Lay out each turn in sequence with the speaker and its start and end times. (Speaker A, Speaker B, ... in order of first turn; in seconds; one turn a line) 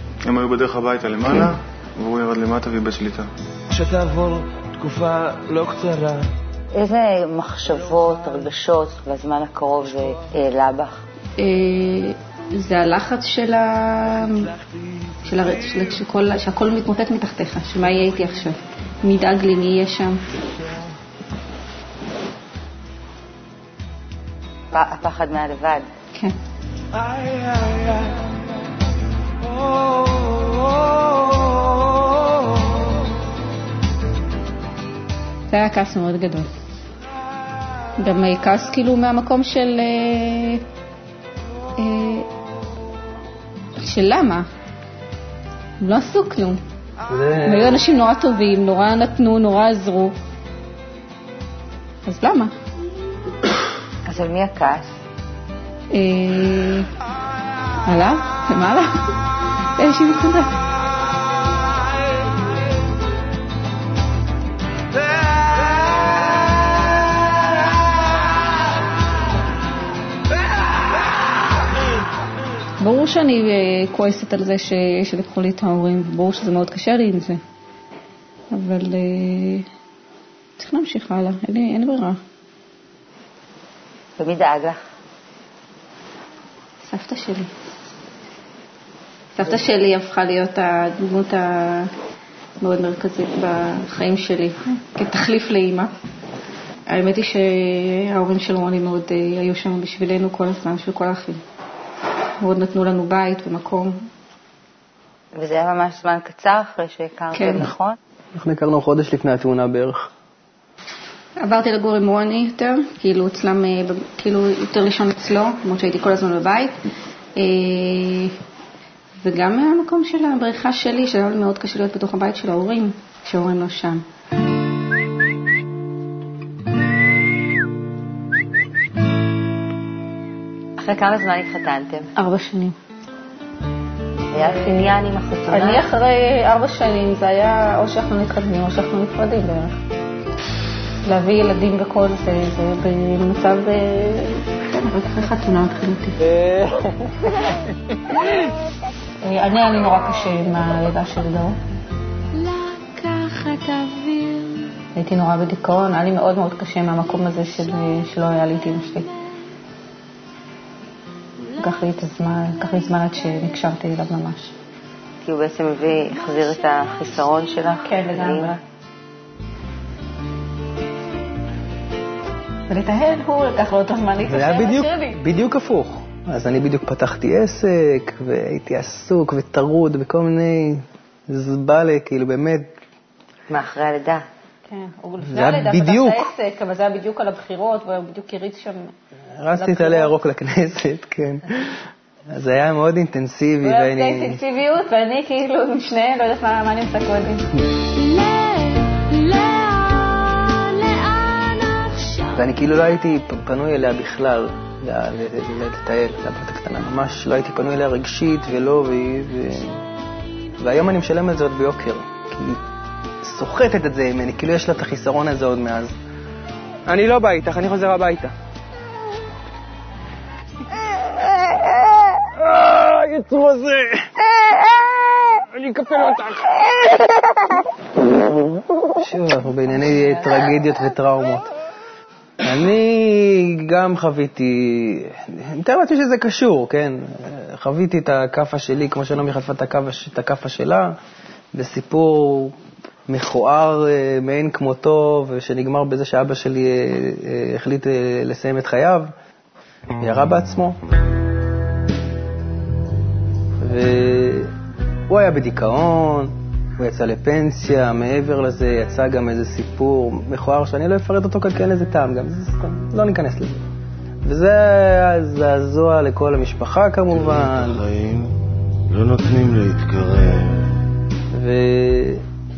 Speaker A: 0.2-3.3
Speaker B: 3.7-6.3
Speaker C: 6.7-11.0
Speaker D: 11.4-14.5
Speaker D: 15.2-20.4
Speaker C: 24.7-25.9
Speaker D: 35.5-36.5
Speaker D: 38.0-40.6
Speaker D: 41.8-42.3
Speaker D: 43.8-44.5
Speaker D: 45.8-46.6
Speaker E: 47.1-47.8
Speaker D: 47.4-50.1
Speaker D: 52.0-52.5
Speaker C: 54.0-54.9
Speaker D: 55.9-56.9
Speaker D: 57.9-58.9
Speaker D: 59.8-60.5
Speaker D: 72.8-77.4
Speaker D: 78.5-79.7
Speaker D: 80.6-82.2
Speaker C: 84.2-84.8
Speaker D: 86.9-87.5
Speaker D: 89.3-91.9
Speaker D: 92.6-95.9
Speaker D: 96.9-101.4
Speaker D: 102.4-104.0
Speaker C: 105.3-108.0
Speaker D: 107.3-107.7
Speaker E: 108.3-110.1
Speaker D: 111.4-116.8
Speaker D: 117.3-118.3
Speaker D: 119.2-124.0
Speaker C: 130.8-132.1
Speaker D: 132.2-132.8
Speaker C: 134.3-135.9
Speaker D: 134.5-134.8
Speaker D: 135.5-139.8
Speaker D: 141.0-146.2
Speaker D: 149.2-151.6
Speaker C: 153.3-153.9
Speaker D: 154.9-159.1
Speaker D: 161.5-164.5
Speaker C: 165.2-168.5
Speaker D: 167.8-168.6
Speaker D: 172.7-175.2
Speaker E: 174.3-182.7
Speaker C: 183.5-184.2
Speaker D: 184.7-188.9
Speaker E: 185.2-186.3
Speaker E: 189.4-194.4
Speaker D: 189.6-190.2
Speaker D: 193.6-197.5
Speaker D: 198.9-199.7
Speaker D: 200.8-201.1
Speaker E: 202.3-209.8
Speaker E: 210.6-212.6
Speaker E: 213.2-215.9
Speaker E: 216.9-218.3
Speaker E: 220.9-226.6
Speaker E: 228.9-231.5
Speaker E: 232.4-240.9
Speaker E: 241.5-242.6
Speaker E: 243.1-249.1
Speaker E: 250.0-250.8
Speaker E: 253.6-254.5
Speaker E: 255.1-263.6
Speaker E: 264.2-267.8
Speaker B: 267.1-268.4
Speaker B: 268.9-270.8
Speaker E: 271.3-272.2